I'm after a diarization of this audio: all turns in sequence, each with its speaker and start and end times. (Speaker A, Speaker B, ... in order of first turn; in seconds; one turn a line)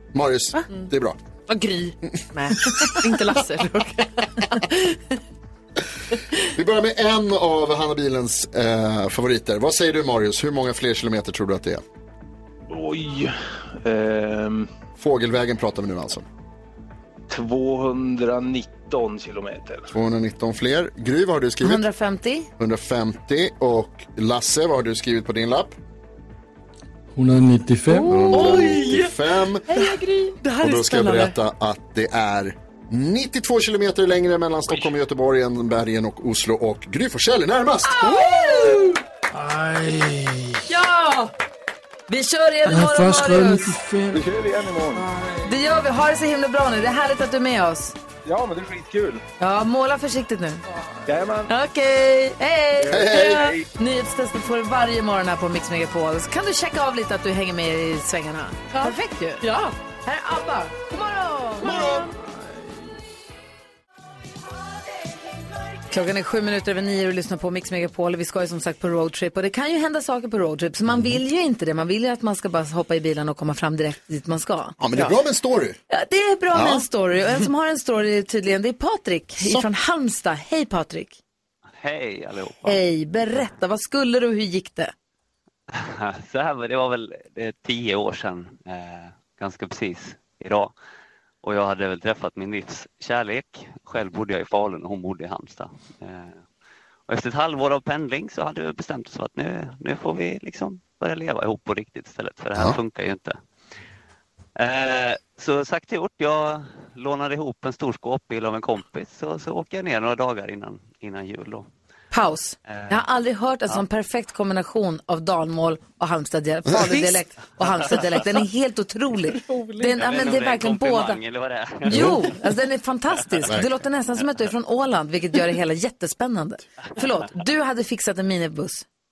Speaker A: 0.1-1.2
Speaker B: 1.5-5.0
Speaker A: 6.4-11.8
Speaker C: 12.7-14.7
Speaker A: 15.0-16.2
Speaker C: 17.3-19.9
Speaker A: 19.9-21.9
Speaker D: 21.6-22.5
Speaker A: 22.6-25.7
Speaker E: 27.1-28.3
Speaker B: 28.1-31.4
Speaker D: 28.1-28.8
Speaker A: 28.1-30.0
Speaker A: 30.6-38.3
Speaker D: 37.8-39.0
Speaker E: 39.3-40.6
Speaker D: 40.7-41.3
Speaker D: 42.1-43.8
Speaker E: 42.6-44.3
Speaker C: 44.1-45.0
Speaker D: 45.4-47.9
Speaker C: 48.2-49.2
Speaker D: 49.4-50.6
Speaker C: 51.1-51.5
Speaker D: 51.5-59.4
Speaker C: 52.8-53.6
Speaker A: 52.9-53.4
Speaker B: 58.7-59.7
Speaker D: 60.0-62.0
Speaker B: 61.6-62.3
Speaker D: 65.9-74.8
Speaker A: 74.8-75.8
Speaker D: 75.9-81.2
Speaker A: 76.5-76.8
Speaker A: 79.4-79.7
Speaker F: 81.8-82.8
Speaker D: 82.6-84.9
Speaker F: 85.7-90.7
Speaker F: 91.4-96.4
Speaker F: 97.1-103.4
Speaker F: 104.5-111.7
Speaker D: 112.1-121.2
Speaker F: 112.7-113.0
Speaker A: 116.7-117.0
Speaker B: 119.5-119.9
Speaker F: 119.9-122.1
Speaker D: 121.8-128.8
Speaker A: 121.9-122.3